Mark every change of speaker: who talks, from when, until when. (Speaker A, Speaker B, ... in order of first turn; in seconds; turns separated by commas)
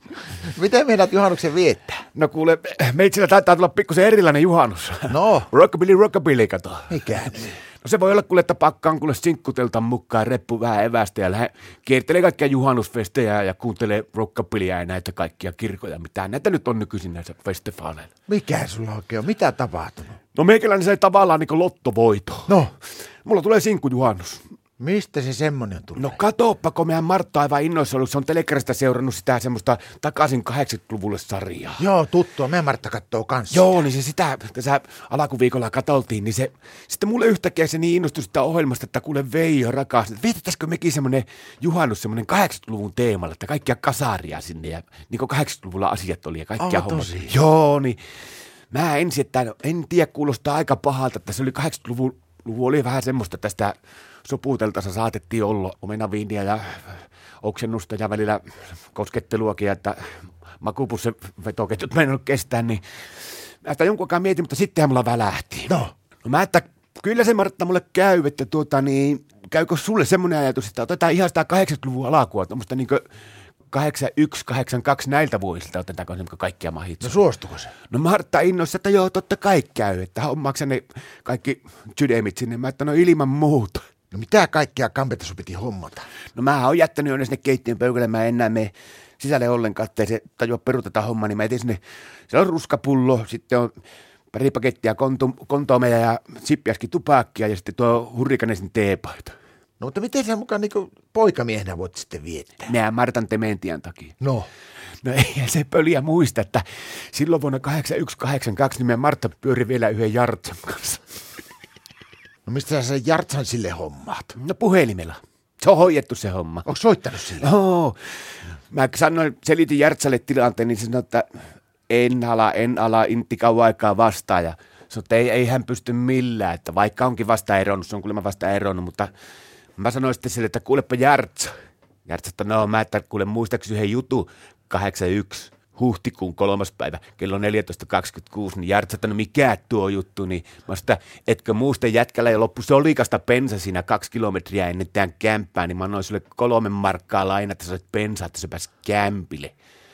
Speaker A: 0.5-2.0, Speaker B: 2.1-7.3, Speaker A: 5.1-5.5, Speaker A: 6.9-7.6, Speaker B: 7.8-18.1, Speaker A: 18.3-20.2, Speaker B: 20.4-22.7, Speaker A: 22.5-22.7, Speaker B: 23.2-24.4, Speaker A: 24.8-26.2, Speaker B: 26.0-31.8, Speaker A: 31.8-33.7, Speaker B: 33.5-48.0, Speaker A: 46.6-47.4, Speaker B: 48.7-58.4, Speaker B: 58.9-62.8, Speaker B: 63.6-73.0, Speaker B: 73.7-77.2, Speaker A: 77.0-77.7, Speaker B: 77.9-83.8, Speaker A: 84.1-86.1, Speaker B: 86.3-93.7, Speaker B: 94.3-99.3, Speaker A: 99.8-102.7, Speaker B: 102.7-104.2, Speaker A: 104.2-104.5, Speaker B: 105.0-111.0, Speaker A: 112.5-114.4, Speaker B: 114.4-116.7, Speaker A: 116.7-117.5, Speaker B: 117.4-118.1, Speaker B: 118.7-121.3, Speaker B: 121.9-129.1, Speaker B: 129.8-131.5, Speaker B: 132.1-149.6